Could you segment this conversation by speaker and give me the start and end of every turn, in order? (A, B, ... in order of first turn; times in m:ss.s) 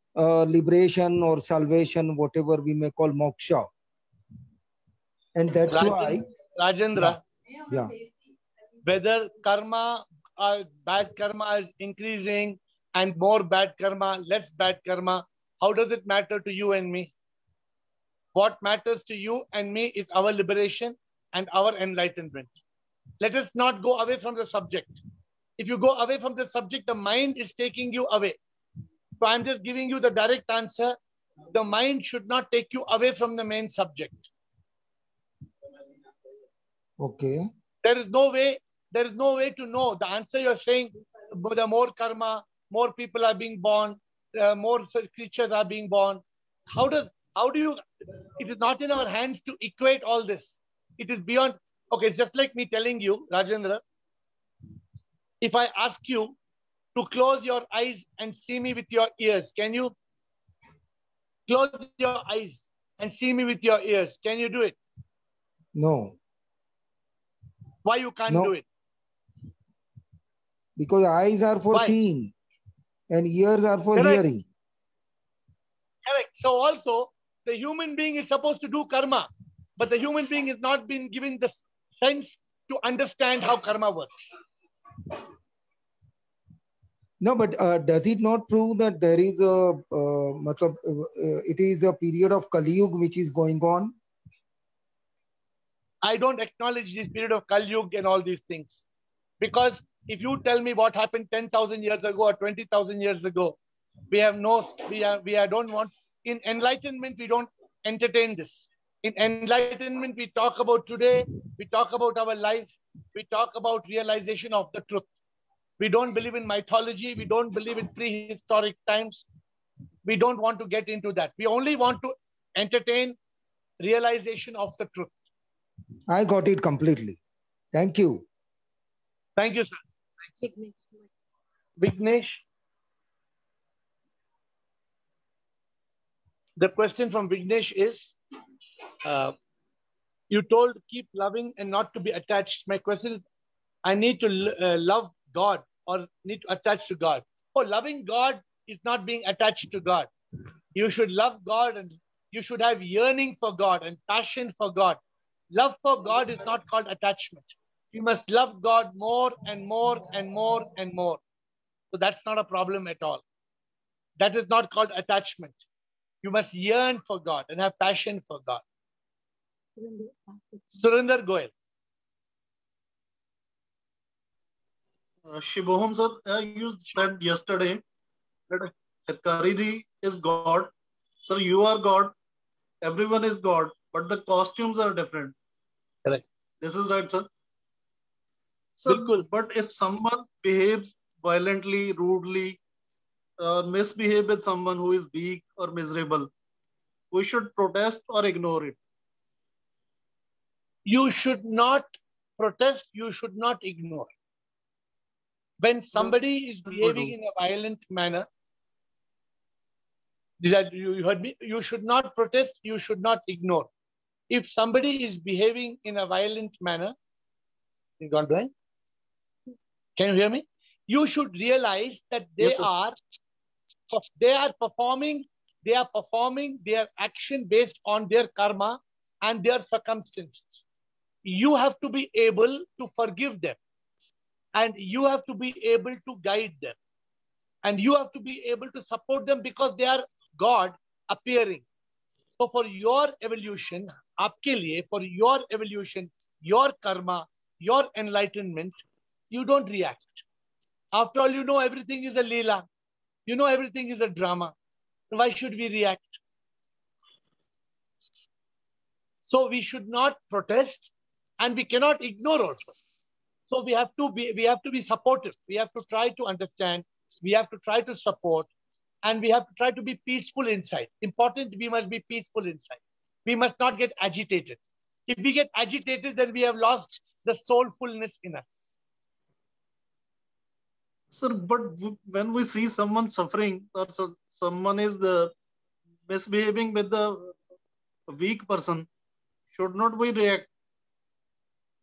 0:00.2-0:03.7 A
0:05.4-0:06.2 A
0:05.7-0:07.2 B
0:08.8-0:17.1 B
0:18.4-0:22.6 B
0:23.2-0:25.0 B
0:25.6-0:28.4 B
0:29.2-0:31.0 B
0:31.5-0:34.3 B
0:37.0-0:37.5 A
0:37.8-0:47.8 B
0:48.4-0:53.8 B
0:55.4-0:56.4 B
0:57.0-0:59.9 B
1:01.5-1:04.8 B
1:05.8-1:06.2 A
1:07.8-1:08.6 B
1:08.3-1:08.5 A
1:10.8-1:12.3 A
1:13.1-1:14.4 A
1:14.0-1:14.2 B
1:16.0-1:24.3 B
1:27.2-1:34.0 A
1:36.0-1:38.8 B
1:39.4-1:43.6 B
1:44.1-1:55.1 B
1:55.8-1:59.2 B
2:00.1-2:03.2 B
2:03.8-2:05.2 B
2:06.1-2:07.2 A
2:07.7-2:08.3 A
2:09.4-2:09.8 B
2:11.8-2:12.4 B
2:16.6-2:18.2 B
2:19.0-2:19.4 B
2:20.3-2:23.2 B
2:23.8-2:30.1 B
2:30.8-2:35.0 B
2:35.5-2:41.2 B
2:41.9-2:43.2 B
2:44.2-2:45.6 B
2:46.2-2:48.6 B
2:50.7-2:51.5 B
2:55.3-2:57.8 C
2:58.5-3:00.7 C
3:01.2-3:02.1 C
3:02.8-3:05.4 C
3:06.6-3:07.3 C
3:08.8-3:12.6 C
3:08.9-3:09.2 B
3:13.4-3:16.3 C
3:17.1-3:18.8 C
3:20.9-3:24.1 B
3:25.6-3:28.3 B
3:26.7-3:27.1 C
3:30.4-3:33.7 B
3:34.3-3:37.0 B
3:38.0-3:38.5 B
3:40.0-3:43.0 B
3:43.9-3:50.6 B
3:51.2-3:53.6 B
3:54.6-3:56.8 B
3:57.6-4:01.6 B
4:02.4-4:10.2 B
4:10.9-4:12.7 B
4:13.3-4:14.5 B
4:15.1-4:16.2 B
4:19.3-4:22.8 B
4:23.5-4:28.5 B
4:29.0-4:38.7 B
4:41.1-4:45.3 C
4:46.1-4:47.4 C
4:48.1-4:48.9 C
4:49.5-4:50.5 C